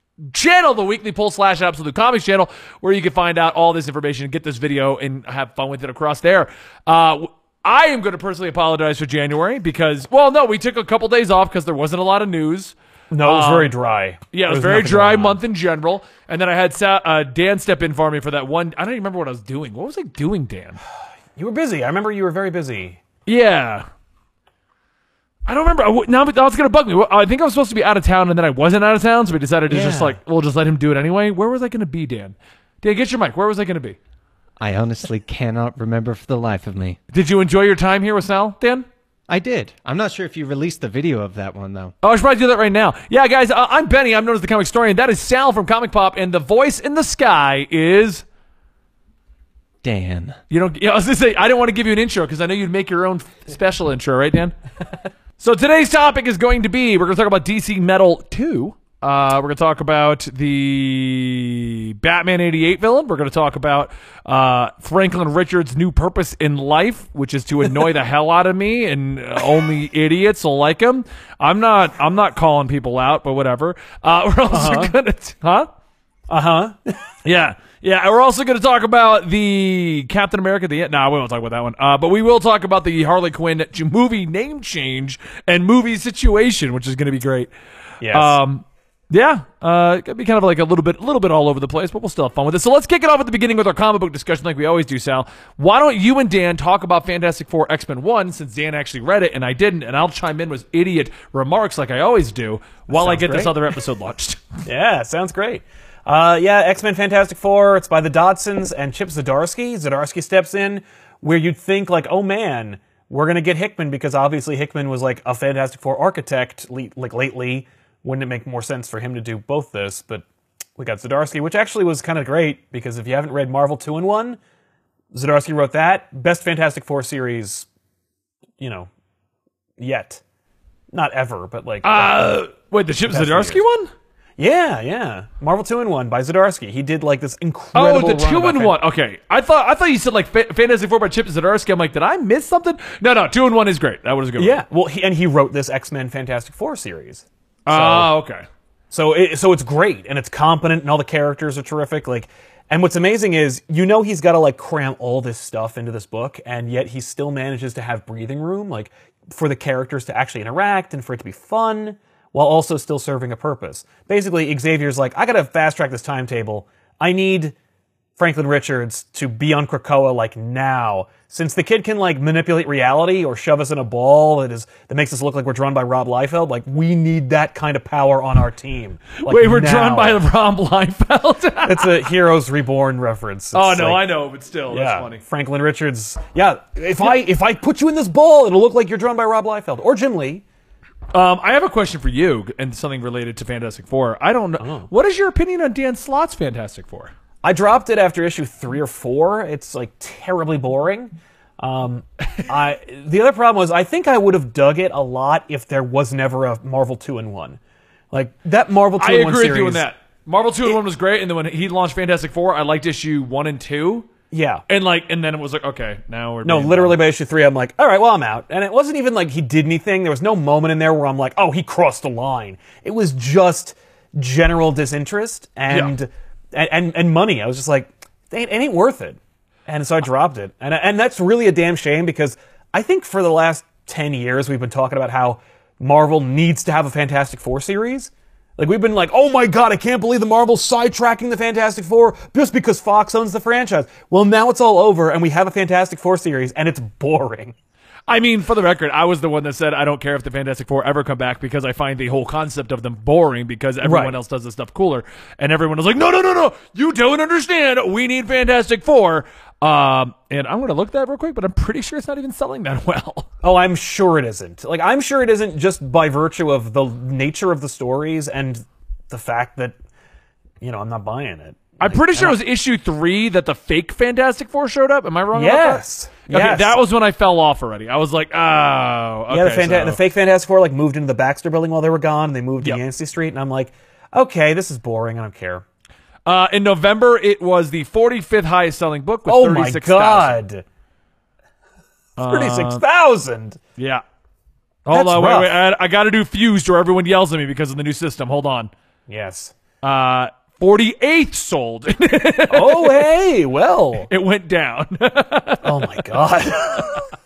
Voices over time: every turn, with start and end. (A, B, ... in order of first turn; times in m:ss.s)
0:00.3-0:13.7 A
0:13.1-0:15.4 B
0:14.3-0:20.8 A
0:21.4-0:23.0 B
0:23.3-0:23.9 A
0:25.5-0:34.0 A
0:29.7-0:30.2 B
0:34.6-0:37.0 C
0:37.1-0:38.9 A
0:39.3-0:41.9 C
0:42.0-0:48.2 A
0:49.8-0:50.4 C
0:50.5-0:54.6 A
0:55.4-1:15.7 A
1:14.5-1:14.9 B
1:16.3-1:17.0 B
1:17.2-1:27.5 A
1:28.0-1:28.4 B
1:28.1-1:44.4 A
1:42.9-1:43.5 B
1:44.6-2:00.3 B
2:00.8-2:04.4 B
2:05.1-2:07.7 B
2:08.6-2:08.9 B
2:09.8-2:10.2 B
2:10.9-2:12.4 B
2:11.8-2:13.9 A
2:13.1-2:13.6 B
2:14.4-2:18.8 B
2:17.8-2:24.6 A
2:24.4-2:28.1 B
2:27.7-2:28.4 A
2:28.9-2:47.6 B
2:48.2-3:00.2 B
2:59.2-3:01.9 A
3:01.6-3:04.0 B
3:03.5-3:05.2 A
3:04.7-3:10.4 B
3:11.1-3:17.1 A
3:14.6-3:14.9 B
3:17.4-3:27.6 B
3:28.1-3:29.8 B
3:29.0-3:34.1 A
3:34.3-3:34.6 B
3:34.7-3:37.0 A
3:36.4-4:07.6 B
4:08.1-4:23.3 A
4:13.8-4:14.2 B
4:23.4-4:29.8 B
4:30.6-4:32.4 B
4:31.8-4:40.0 A
4:35.3-4:36.8 B
4:39.3-4:45.6 B
4:46.3-4:50.4 A
4:49.3-4:50.6 B
4:52.2-4:52.8 A
4:52.3-4:53.6 B
4:53.8-4:54.0 A
4:54.9-4:58.7 A
4:54.9-4:55.5 B
4:59.1-4:59.6 B
4:59.8-5:03.0 A
5:02.5-5:04.1 B
5:04.1-5:06.0 A
5:05.6-5:07.1 B